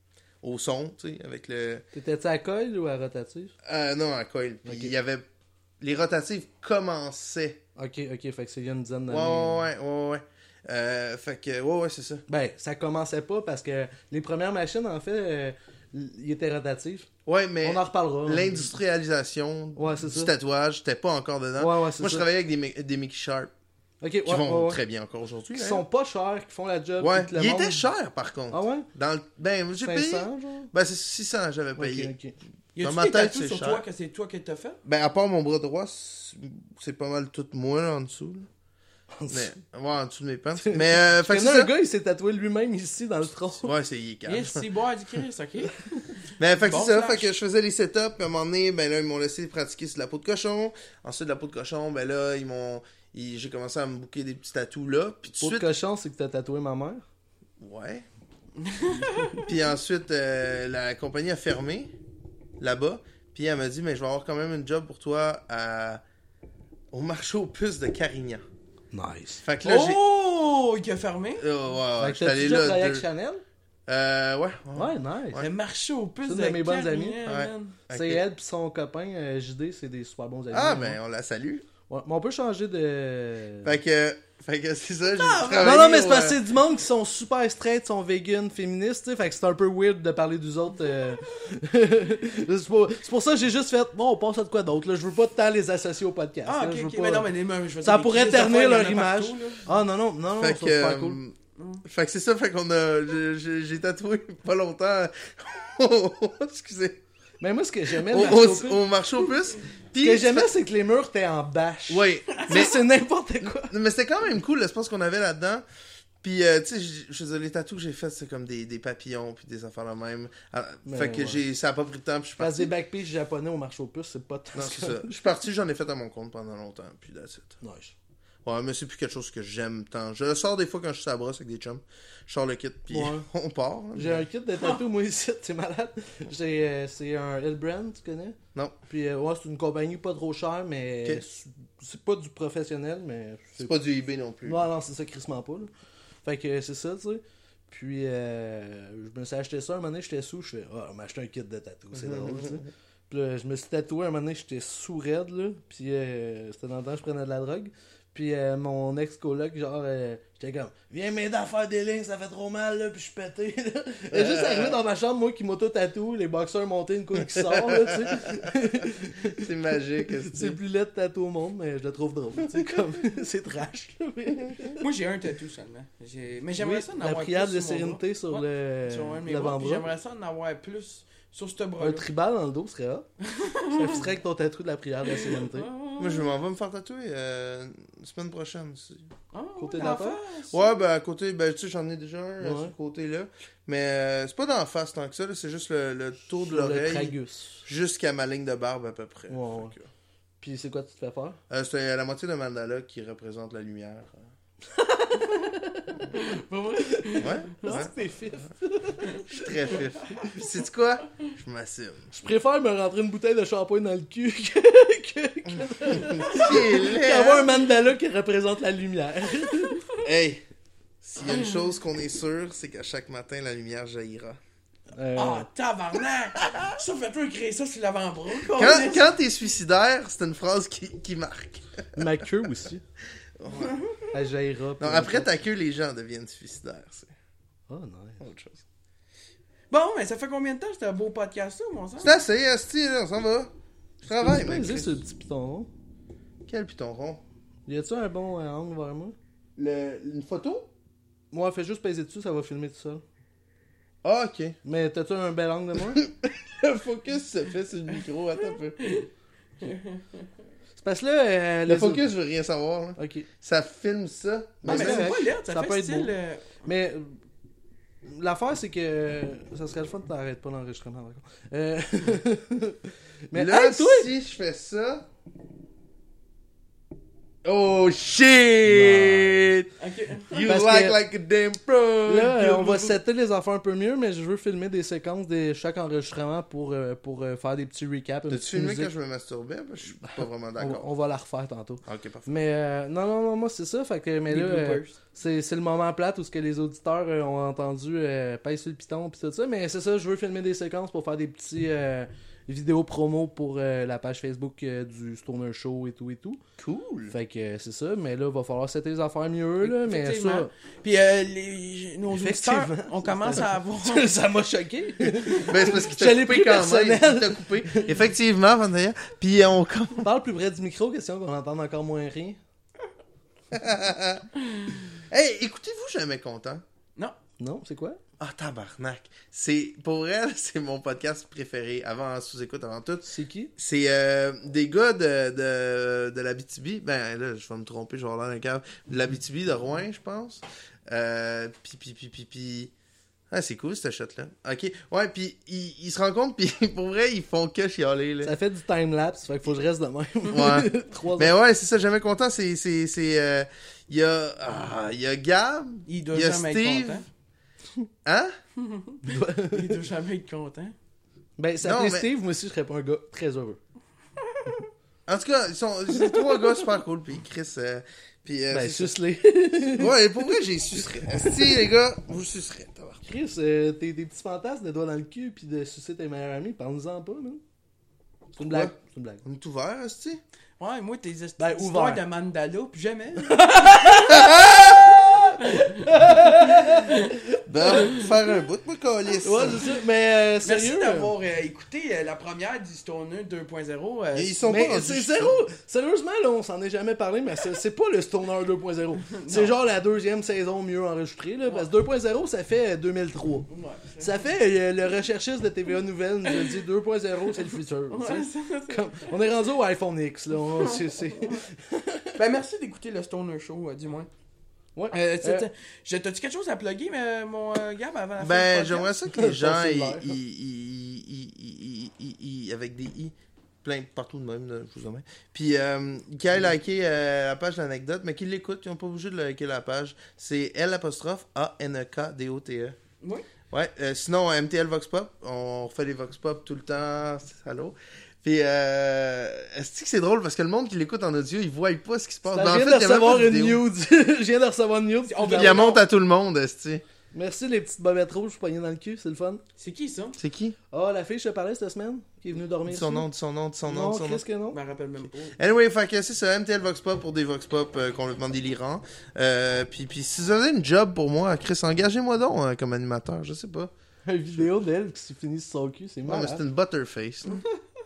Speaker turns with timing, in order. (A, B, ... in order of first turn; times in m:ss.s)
0:00.4-0:01.8 A
0:01.9-0:03.5 B
0:03.6-0:05.2 A
0:04.6-0:04.9 B
0:05.8-0:07.6 A
0:07.8-0:09.7 B
0:09.1-0:12.2 A
0:12.3-0:17.1 B
0:17.2-0:23.5 A
0:17.6-0:18.7 B
0:19.8-0:20.3 B
0:21.6-0:22.2 B
0:24.0-0:24.8 B
0:24.2-0:25.8 A
0:25.5-0:27.8 B
0:27.0-0:32.1 A
0:28.5-0:28.9 B
0:29.8-0:30.7 B
0:31.8-0:32.4 B
0:32.7-0:34.8 C
0:32.8-0:33.8 A
0:34.8-0:38.5 A
0:39.2-0:39.5 B
0:39.3-0:41.7 A
0:40.6-0:43.7 B
0:43.6-0:44.7 A
0:44.2-0:45.7 C
0:46.4-0:55.7 A
0:46.6-0:47.3 C
0:55.4-0:57.0 B
0:57.6-0:58.0 A
0:58.6-0:59.4 C
0:59.4-1:01.9 A
1:02.6-1:06.0 A
1:06.9-1:08.4 A
1:08.9-1:09.4 B
1:09.4-1:10.0 A
1:09.6-1:11.4 C
1:11.4-1:13.0 A
1:12.0-1:13.4 B
1:13.9-1:15.4 A
1:14.7-1:15.4 B
1:15.4-1:17.8 C
1:16.2-1:17.2 B
1:17.2-1:18.2 A
1:17.9-1:21.0 B
1:20.5-1:21.7 A
1:21.9-1:23.7 B
1:23.6-1:26.4 A
1:25.1-1:25.8 C
1:25.6-1:37.3 B
1:36.4-1:39.7 C
1:37.8-1:41.2 B
1:40.4-1:47.0 A
1:41.6-1:41.8 C
1:47.4-1:48.8 B
1:47.9-1:50.5 A
1:50.0-1:53.7 B
1:51.9-1:52.8 A
1:52.3-1:52.6 C
1:53.6-1:55.6 A
1:56.2-2:02.7 A
2:00.8-2:01.4 B
2:02.4-2:05.2 B
2:04.5-2:07.6 A
2:07.6-2:07.9 B
2:08.4-2:14.3 A
2:12.9-2:13.2 B
2:13.9-2:18.4 B
2:18.9-2:23.7 B
2:23.6-2:24.7 A
2:24.4-2:25.7 B
2:26.2-2:49.5 B
2:31.9-2:32.6 A
2:44.1-2:44.8 A
2:47.2-2:50.6 A
2:50.2-2:54.8 B
2:54.8-3:02.0 C
2:56.6-2:59.9 B
3:01.8-3:03.1 B
3:03.3-3:04.0 C
3:03.7-3:05.7 B
3:05.0-3:06.3 C
3:06.0-3:09.0 A
3:09.3-3:10.7 C
3:09.6-3:10.2 B
3:10.5-3:17.1 A
3:12.4-3:12.7 B
3:16.4-3:17.6 B
3:17.6-3:19.9 A
3:19.3-3:19.7 B
3:20.4-3:21.4 B
3:21.5-3:24.3 A
3:24.7-3:26.1 B
3:26.1-3:27.9 C
3:27.0-3:29.7 B
3:27.2-3:27.9 A
3:29.3-3:32.1 A
3:30.0-3:30.3 C
3:32.1-3:39.9 B
3:35.9-3:37.5 A
3:40.0-3:40.4 A
3:41.0-3:44.4 A
3:44.9-3:45.5 B
3:45.2-3:49.1 C
3:48.5-3:52.2 A
3:52.0-3:52.8 B
3:53.4-3:53.8 A
3:53.5-3:54.0 C
3:54.1-3:55.3 B
3:54.8-3:57.1 A
3:57.7-3:58.2 B
3:58.2-3:58.6 A
3:59.7-4:02.1 C
4:02.0-4:05.0 A
4:04.1-4:05.7 B
4:06.5-4:07.2 A
4:07.7-4:09.1 B
4:09.6-4:10.7 A
4:11.3-4:13.0 B
4:14.0-4:14.6 A
4:14.6-4:16.0 B
4:15.9-4:18.8 A
4:18.8-4:19.1 C
4:19.6-4:20.3 C
4:20.8-4:22.0 B
4:21.6-4:25.2 A
4:23.0-4:23.3 B
4:24.6-4:27.2 B
4:24.7-4:26.6 C
4:28.0-4:34.1 B
4:33.3-4:35.0 A
4:37.4-4:39.7 A
4:38.7-4:39.4 B
4:39.8-4:40.4 C
4:40.3-4:43.0 A
4:40.4-4:41.0 B
4:42.0-4:48.9 B
4:48.3-4:50.9 A
4:50.0-5:06.4 B
4:51.8-4:52.3 A
4:54.3-4:55.0 C
5:06.6-5:07.1 A
5:07.1-5:10.5 B
5:09.6-5:14.1 C
5:12.1-5:18.0 B
5:15.4-5:20.1 A
5:20.0-5:22.4 B
5:23.5-5:24.3 A
5:24.9-5:26.6 A
5:27.4-5:28.0 B
5:28.2-5:42.7 A
5:33.1-5:33.5 B
5:43.3-5:48.4 A
5:48.2-5:51.3 B
5:50.3-5:57.0 A
5:55.9-5:57.0 C
5:58.0-5:58.3 A
5:58.6-6:00.7 C
5:59.0-5:59.8 B
6:01.4-6:03.6 B
6:01.6-6:02.1 A
6:05.1-6:08.9 A
6:06.0-6:06.6 B
6:08.5-6:10.4 B
6:09.7-6:13.0 A
6:10.9-6:11.6 B
6:13.0-6:17.4 B
6:18.4-6:19.2 B
6:18.4-6:18.7 A
6:19.2-6:20.2 A
6:20.6-6:24.4 C
6:21.4-6:22.0 B
6:23.2-6:28.0 B
6:24.1-6:25.2 A
6:25.4-6:27.2 C
6:27.4-6:29.7 A
6:27.7-6:28.0 C
6:29.2-6:31.1 B
6:30.4-6:34.4 C
6:34.1-6:35.3 A
6:34.4-6:43.5 B
6:39.1-6:39.6 C
6:43.5-6:44.2 C
6:44.0-6:52.2 B
6:46.3-6:46.5 C
6:47.3-6:49.1 C
6:50.5-6:51.4 C
6:52.2-6:54.1 C
6:54.7-6:55.5 B
6:54.9-6:58.9 C
6:58.2-7:12.8 A
6:59.1-7:00.2 B
7:13.0-7:13.3 C
7:13.5-7:23.6 A
7:22.3-7:25.7 B
7:25.0-7:25.8 C
7:25.3-7:26.8 A
7:27.1-7:29.4 B
7:29.6-7:30.2 C
7:30.2-7:30.6 A
7:30.7-7:33.1 B
7:32.6-7:34.2 A
7:33.7-7:34.6 B
7:34.5-7:35.4 C
7:35.4-7:43.7 A
7:44.0-7:46.4 B
7:46.0-7:47.4 A